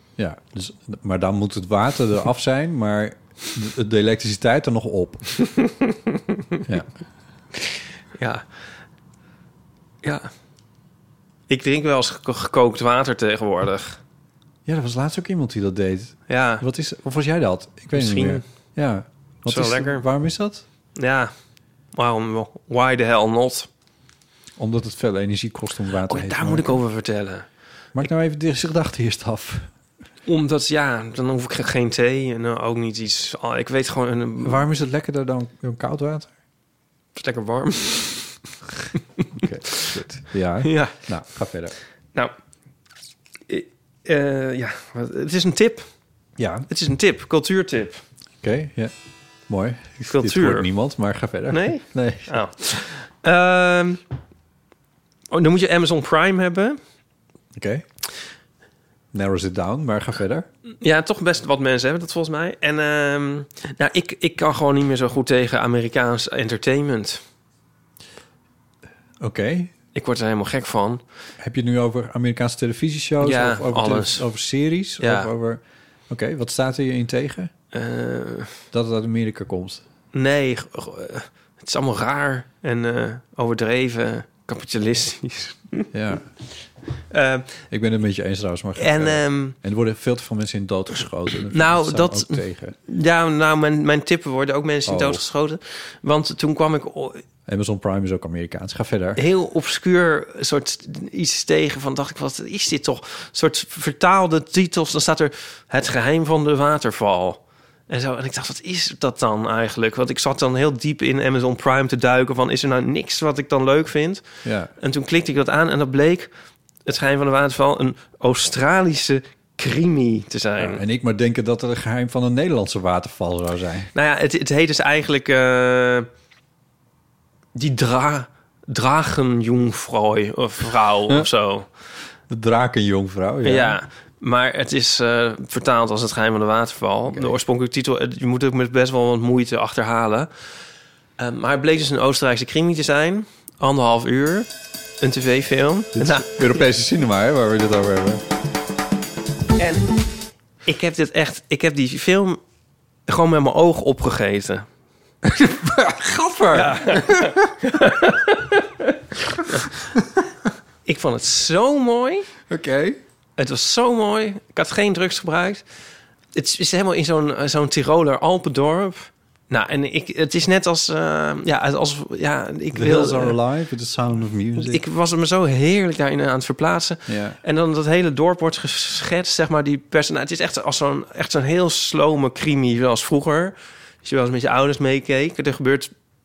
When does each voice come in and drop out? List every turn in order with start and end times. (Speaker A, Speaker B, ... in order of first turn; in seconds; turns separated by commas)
Speaker A: 0.2-5.3, Speaker B: 8.2-8.4, Speaker B: 10.0-10.3, Speaker B: 11.5-14.0, Speaker A: 14.7-20.6, Speaker B: 16.3-16.6, Speaker B: 17.9-18.4, Speaker B: 19.5-20.1, Speaker B: 20.9-21.3, Speaker B: 21.9-23.7, Speaker A: 24.6-26.8, Speaker B: 26.1-27.5, Speaker A: 27.9-29.7, Speaker B: 30.3-34.6, Speaker A: 34.4-36.3, Speaker B: 37.2-38.4, Speaker A: 39.3-41.8, Speaker B: 40.6-41.0, Speaker B: 43.5-45.9, Speaker A: 46.4-46.7, Speaker B: 46.7-48.0, Speaker A: 48.4-48.9, Speaker A: 49.5-52.4, Speaker B: 50.1-50.7, Speaker B: 51.5-54.0, Speaker B: 55.3-56.8, Speaker A: 57.5-57.9, Speaker A: 59.1-60.5, Speaker B: 60.8-67.2, Speaker A: 69.2-69.7, Speaker B: 70.0-71.0, Speaker A: 71.4-77.5, Speaker B: 73.2-74.3, Speaker B: 75.0-75.3, Speaker B: 77.7-78.5, Speaker A: 78.7-79.8, Speaker B: 80.1-85.9, Speaker A: 85.9-86.3, Speaker B: 87.1-87.6, Speaker A: 87.7-92.8, Speaker B: 88.8-89.6, Speaker B: 91.5-97.2, Speaker A: 94.9-95.2, Speaker A: 97.5-99.2, Speaker B: 99.2-114.2, Speaker A: 114.4-114.7, Speaker B: 114.8-116.3, Speaker B: 116.8-120.8, Speaker A: 120.6-123.9, Speaker B: 123.9-126.1, Speaker B: 127.5-131.7, Speaker A: 132.3-133.8, Speaker B: 133.4-140.3, Speaker A: 137.1-137.3, Speaker B: 141.2-144.5, Speaker B: 145.0-146.7, Speaker A: 145.9-148.2, Speaker B: 149.6-150.0, Speaker B: 150.7-152.4, Speaker B: 153.1-154.7, Speaker A: 155.2-157.5, Speaker B: 156.5-158.6, Speaker B: 159.5-159.8, Speaker B: 160.8-162.3, Speaker A: 162.5-163.0, Speaker B: 163.4-165.7, Speaker B: 166.3-173.4, Speaker A: 172.7-174.8, Speaker B: 174.6-185.9, Speaker A: 177.1-177.4